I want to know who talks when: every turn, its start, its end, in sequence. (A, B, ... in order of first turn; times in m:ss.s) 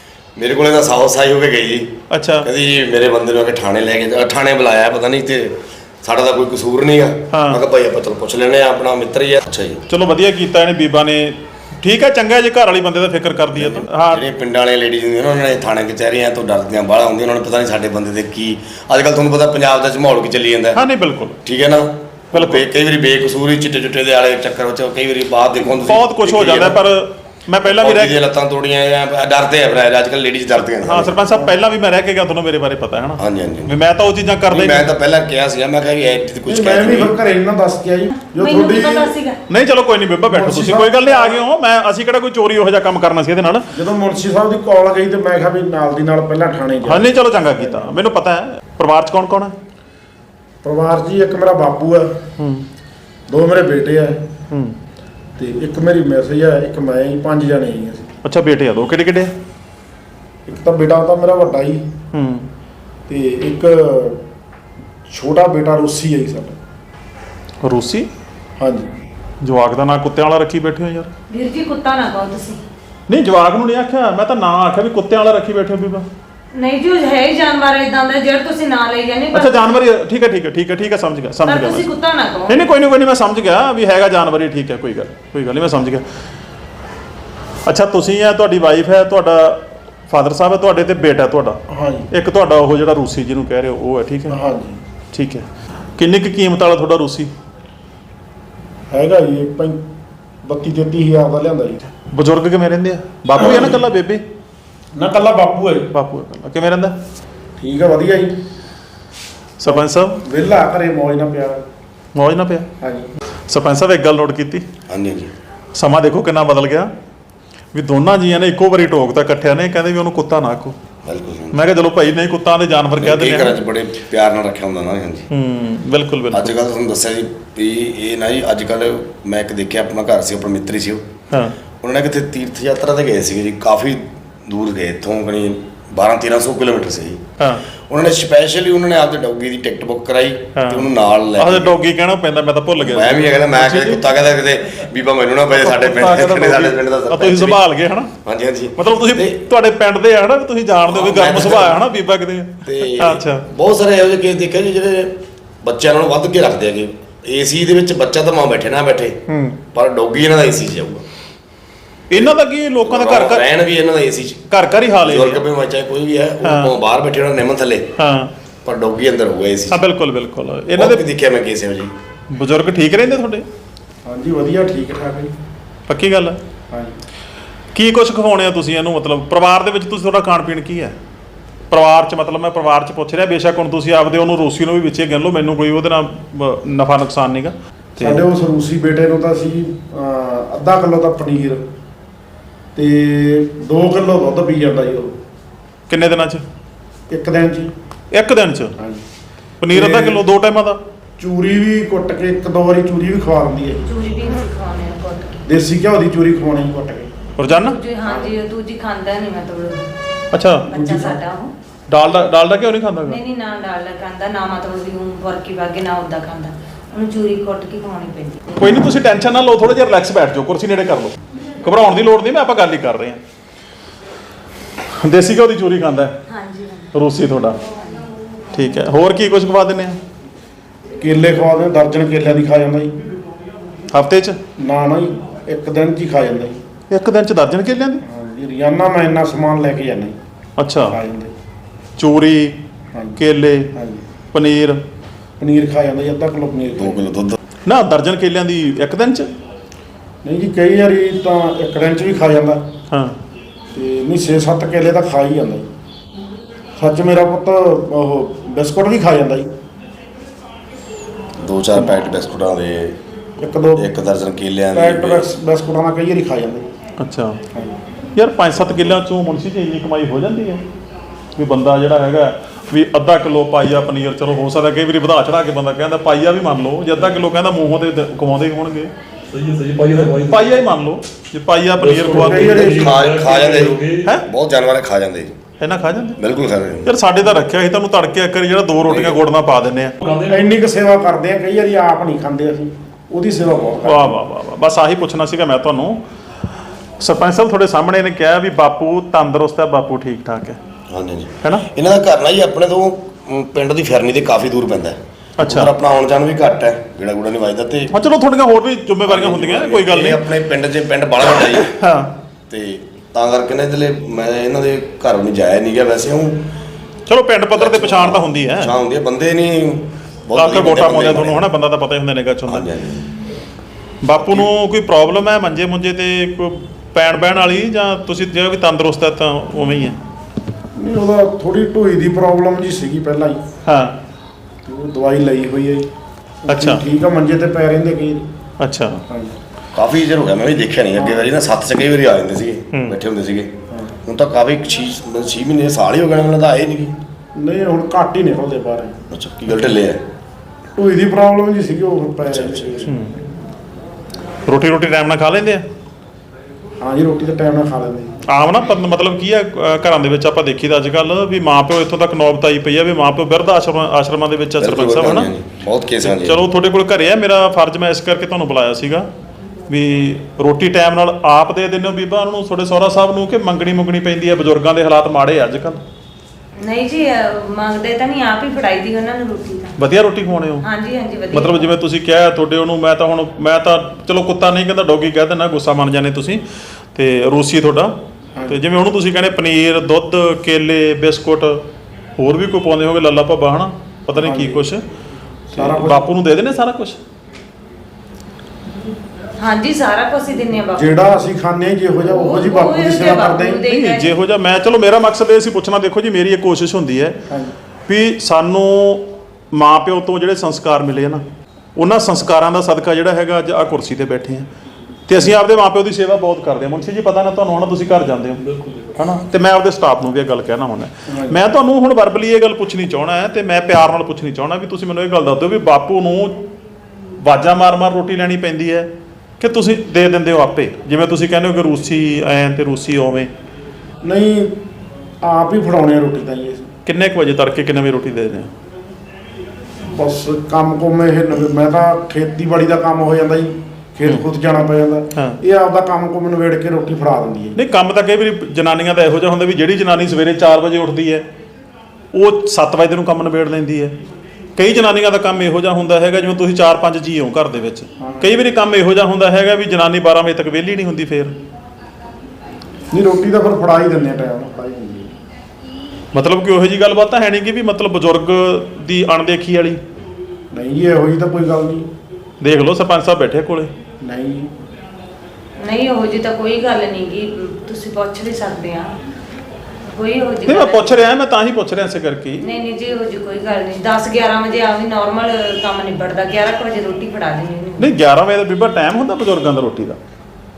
0:00.4-0:09.8 A
0:02.1-0:02.5 B
0:07.3-0:07.6 B
0:09.9-0:14.2 B
0:13.5-0:20.8 A
0:20.7-0:21.4 B
0:21.4-0:26.8 A
0:22.3-0:22.7 B
0:25.8-0:28.2 B
0:27.6-0:31.2 A
0:30.8-0:34.9 B
0:31.3-0:31.5 C
0:33.2-0:33.7 A
0:34.5-0:37.1 A
0:36.5-0:39.1 C
0:38.3-0:39.4 D
0:39.5-0:43.7 B
0:40.3-0:41.4 C
0:43.7-0:47.9 C
0:46.8-0:49.5 B
0:50.6-0:52.1 C
0:52.4-0:52.6 B
0:53.3-0:54.2 C
0:54.5-0:54.8 B
0:55.4-0:58.1 C
0:58.2-0:59.3 B
1:00.5-1:01.8 C
1:02.1-1:02.5 B
1:03.1-1:04.2 C
1:05.1-1:06.6 C
1:07.6-1:08.1 B
1:08.6-1:08.9 C
1:09.4-1:11.1 B
1:11.3-1:12.6 D
1:13.1-1:16.0 B
1:16.5-1:19.6 D
1:19.3-1:21.9 B
1:21.4-1:22.6 D
1:22.5-1:26.0 B
1:27.6-1:31.6 B
1:31.7-1:32.1 C
1:32.1-1:34.4 B
1:34.3-1:34.8 C
1:35.1-1:35.4 B
1:36.0-1:37.3 B
1:38.9-1:39.8 C
1:40.4-1:41.8 C
1:42.0-1:44.2 B
1:43.3-1:43.8 C
1:45.0-1:45.9 C
1:45.9-1:46.9 B
1:47.6-1:48.3 C
1:49.6-1:50.2 B
1:49.6-1:51.6 C
1:52.1-1:52.7 B
1:52.8-1:53.1 C
1:53.5-1:54.6 B
1:54.9-1:55.3 A
1:55.8-1:56.9 B
1:57.7-2:00.7 B
2:01.0-2:01.6 A
2:01.5-2:03.6 B
2:02.9-2:05.2 A
2:05.3-2:06.5 B
2:06.3-2:11.1 A
2:11.3-2:11.6 B
2:11.8-2:17.2 A
2:17.4-2:17.6 B
2:17.9-2:21.8 A
2:20.6-2:24.0 B
2:22.8-2:27.6 A
2:25.5-2:28.1 B
2:28.2-2:29.4 A
2:28.8-2:33.5 B
2:30.8-2:31.8 A
2:32.6-2:41.0 A
2:39.3-2:39.6 B
2:42.1-2:43.5 B
2:42.1-2:44.4 A
2:44.5-2:45.5 B
2:45.0-2:47.9 A
2:46.4-2:46.7 B
2:48.0-2:48.3 B
2:48.6-2:49.8 A
2:49.7-2:51.0 B
2:50.8-2:51.9 A
2:52.3-2:53.4 B
2:54.0-2:55.3 C
2:55.9-2:56.4 B
2:57.7-3:00.9 B
3:01.7-3:08.2 B
3:08.0-3:11.6 C
3:12.7-3:15.1 C
3:15.9-3:16.4 B
3:17.1-3:17.7 C
3:18.1-3:18.7 B
3:18.8-3:19.0 C
3:19.6-3:20.8 B
3:19.7-3:20.2 C
3:21.2-3:23.8 C
3:23.8-3:25.4 D
3:25.4-3:27.1 C
3:27.4-3:27.8 B
3:27.5-3:29.8 D
3:28.0-3:28.3 C
3:30.3-3:30.7 B
3:30.7-3:31.5 D
3:30.7-3:31.2 C
3:31.9-3:33.2 B
3:33.0-3:38.5 D
3:38.6-3:43.2 B
3:45.0-3:46.1 B
3:46.3-3:46.9 D
3:46.9-3:47.6 B
3:47.6-3:48.0 D
3:48.5-3:50.0 B
3:51.0-3:52.9 C
3:53.9-3:54.4 B
3:54.6-3:56.6 C
3:56.9-3:58.0 B
3:58.0-4:00.2 C
4:00.6-4:01.0 B
4:00.9-4:01.3 C
4:02.0-4:02.6 B
4:03.2-4:03.7 B
4:03.7-4:04.0 C
4:04.3-4:04.8 B
4:05.4-4:07.1 C
4:06.8-4:07.4 A
4:07.6-4:09.3 B
4:10.2-4:12.6 C
4:12.9-4:13.2 B
4:13.7-4:15.7 C
4:16.8-4:19.5 C
4:21.4-4:23.0 A
4:23.4-4:23.8 C
4:23.8-4:25.2 A
4:24.7-4:26.6 C
4:27.0-4:27.4 B
4:28.2-4:30.6 B
4:31.4-4:38.9 B
4:39.3-4:40.5 E
4:40.3-4:42.7 B
4:41.8-4:44.1 E
4:42.1-4:42.9 C
4:42.7-4:45.4 A
4:45.6-4:46.2 B
4:46.2-4:46.9 A
4:46.8-4:49.9 B
4:48.8-4:49.2 A
4:50.0-4:50.5 E
4:50.3-4:54.2 C
4:53.8-4:56.0 B
4:57.0-5:00.6 B
5:00.9-5:07.9 A
5:01.4-5:01.7 B
5:05.4-5:05.7 B
5:07.9-5:10.2 B
5:09.0-5:11.7 A
5:11.6-5:12.1 B
5:12.5-5:16.4 A
5:17.1-5:18.8 B
5:17.5-5:21.5 A
5:20.3-5:22.7 B
5:22.5-5:23.1 A
5:24.0-5:30.0 B
5:24.2-5:24.5 A
5:30.8-5:33.4 C
5:33.6-5:34.0 B
5:34.6-5:35.9 C
5:36.5-5:38.2 C
5:36.5-5:36.8 B
5:38.6-5:39.0 B
5:39.1-5:39.3 C
5:39.7-5:43.5 A
5:41.0-5:41.3 C
5:42.7-5:43.0 B
5:44.0-5:47.0 A
5:47.4-5:49.0 C
5:49.1-5:50.0 A
5:50.8-5:52.9 C
5:52.3-5:52.8 A
5:52.8-5:53.2 B
5:54.5-5:55.6 B
5:56.8-5:58.1 C
5:58.3-6:05.3 B
6:04.6-6:06.4 A
6:06.0-6:09.0 B
6:09.7-6:15.8 B
6:16.6-6:19.8 D
6:19.8-6:20.6 B
6:20.6-6:21.7 D
6:21.3-6:26.4 B
6:26.9-6:27.9 B
6:28.5-6:31.6 B
6:32.2-6:34.8 B
6:34.2-6:34.6 C
6:35.5-6:36.0 C
6:35.5-6:37.0 B
6:39.4-6:40.9 D
6:40.7-6:43.6 C
6:42.1-6:44.1 D
6:43.6-6:47.2 B
6:47.9-6:51.2 B
6:51.8-6:54.5 B
6:55.1-6:58.4 B
6:58.4-6:58.9 E
6:59.0-7:06.4 B
7:01.1-7:01.4 C
7:07.2-7:08.9 B
7:09.4-7:13.3 B
7:14.0-7:14.5 C
7:15.2-7:16.7 C
7:16.8-7:18.5 B
7:19.9-7:27.6 C
7:27.6-7:31.2 B
7:32.1-7:33.9 B
7:34.6-7:41.3 B
7:38.0-7:38.4 C
7:42.9-7:45.1 C
7:46.1-7:49.8 B
7:50.5-7:51.9 C
7:52.4-7:53.7 B
7:54.0-7:54.5 C
7:55.6-7:58.9 D
7:59.9-8:01.0 D
8:00.5-8:02.4 B
8:02.4-8:07.9 D
8:07.8-8:10.0 B